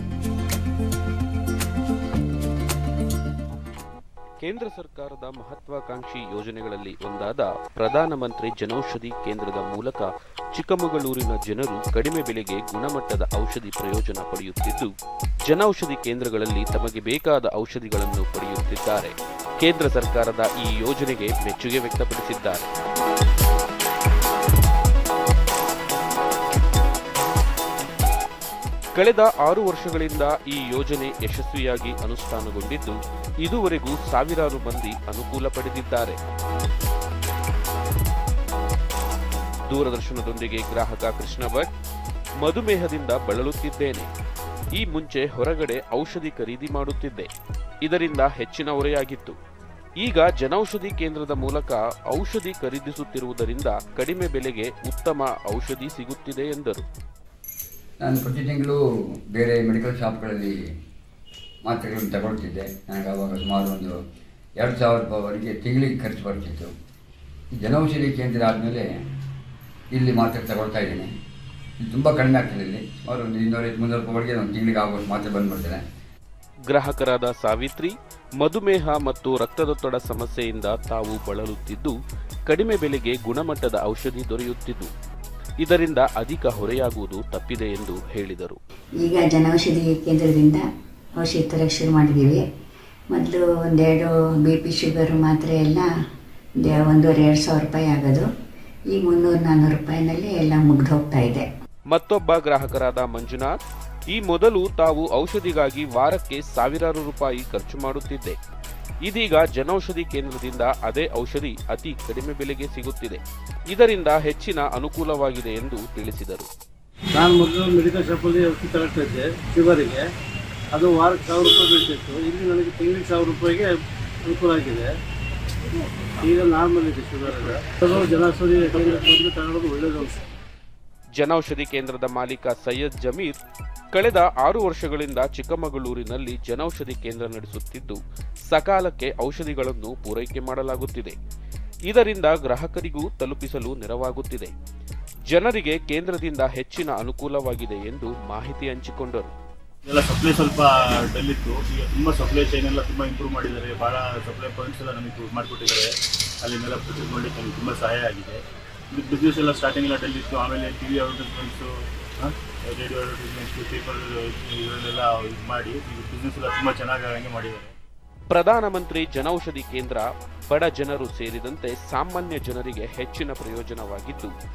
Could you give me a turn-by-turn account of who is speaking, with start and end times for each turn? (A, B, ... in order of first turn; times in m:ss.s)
0:04.4-0:14.9 A
0:15.5-0:22.7 A
0:29.0-0:36.2 A
0:39.7-0:41.7 A
0:42.4-0:44.1 A
0:44.8-0:47.3 A
0:47.8-0:49.4 A
0:50.0-0:56.9 A
0:58.0-0:58.8 B
0:59.3-1:00.7 B
1:01.6-1:04.0 B
1:04.6-1:06.7 B
1:07.6-1:08.9 B
1:09.9-1:11.1 B
1:11.8-1:15.8 B
1:16.7-1:21.9 A
1:22.5-1:24.9 A
1:25.6-1:28.6 A
1:29.0-1:30.6 C
1:31.2-1:32.4 C
1:33.1-1:35.9 C
1:36.6-1:38.3 C
1:38.9-1:41.5 C
1:41.9-1:43.6 A
1:44.1-1:48.4 A
1:49.0-1:53.2 A
1:53.7-1:56.5 A
1:57.1-2:00.0 D
2:00.7-2:03.7 D
2:04.2-2:04.9 D
2:06.2-2:10.2 D
2:07.3-2:07.6 E
2:11.2-2:13.4 A
2:13.9-2:18.0 A
2:18.5-2:21.2 A
2:21.9-2:24.5 A
2:25.3-2:29.3 A
2:29.9-2:38.4 E
2:38.9-2:47.8 E
2:48.3-2:54.3 A